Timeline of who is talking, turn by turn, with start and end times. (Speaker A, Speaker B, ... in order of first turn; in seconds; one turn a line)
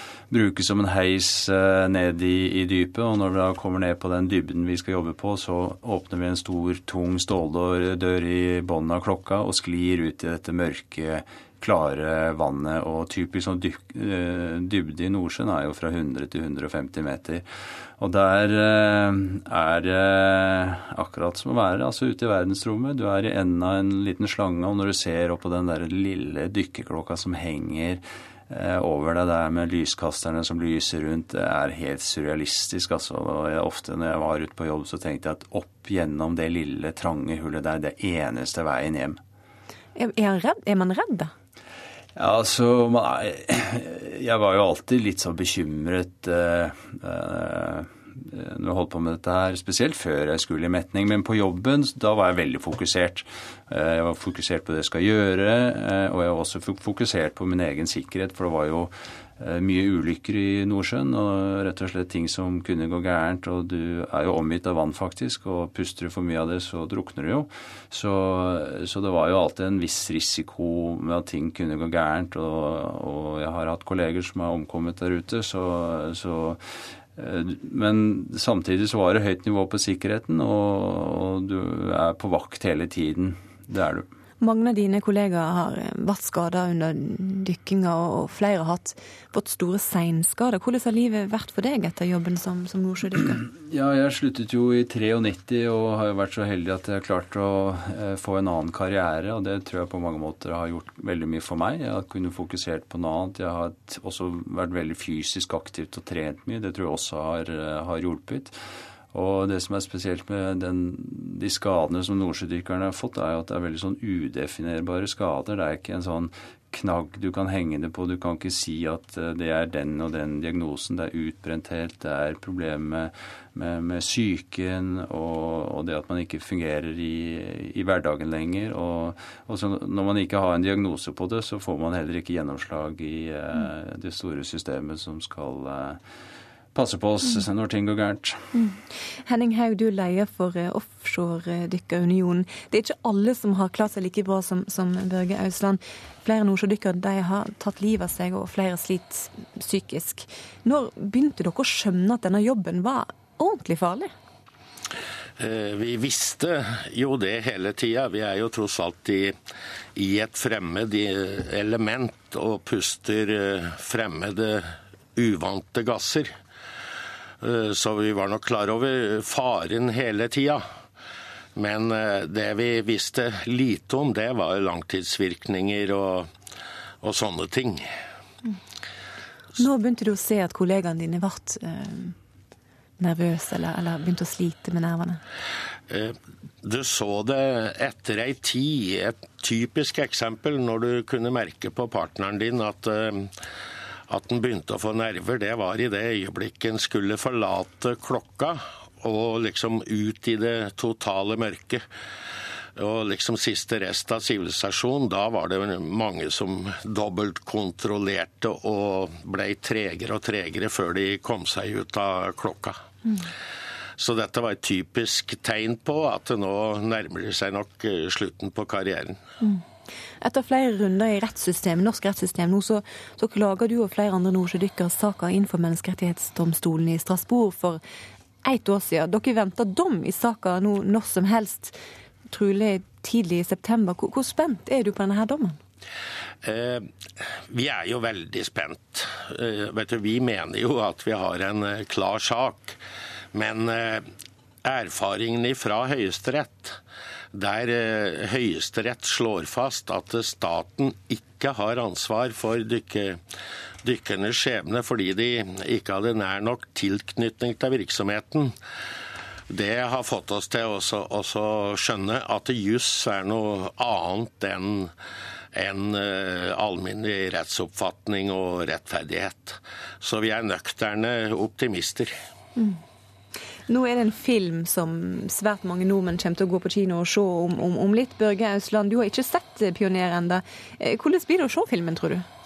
Speaker A: 0.3-17.4
Speaker A: 18.0-39.2
Speaker B: 40.0-41.3
Speaker A: 42.1-84.0
Speaker B: 84.4-93.4
Speaker A: 93.6-108.6
Speaker A: 109.1-136.0
Speaker A: 136.7-138.4
Speaker B: 138.5-154.1
Speaker C: 155.4-159.3
Speaker C: 159.9-166.4
Speaker C: 167.4-170.6
Speaker C: 171.6-176.3
Speaker C: 177.0-177.9
Speaker B: 179.6-182.2
Speaker B: 183.0-185.2
Speaker C: 185.9-193.3
Speaker C: 194.1-201.8
Speaker C: 202.8-212.8
Speaker C: 214.0-219.2
Speaker B: 220.2-227.8
Speaker B: 228.4-231.8
Speaker B: 232.3-235.6
Speaker C: 236.4-236.9
Speaker C: 237.5-242.8
Speaker C: 243.3-244.1
Speaker C: 244.6-246.8
Speaker C: 247.3-253.2
Speaker C: 253.8-258.5
Speaker C: 259.5-264.9
Speaker C: 265.5-272.1
Speaker B: 273.7-282.2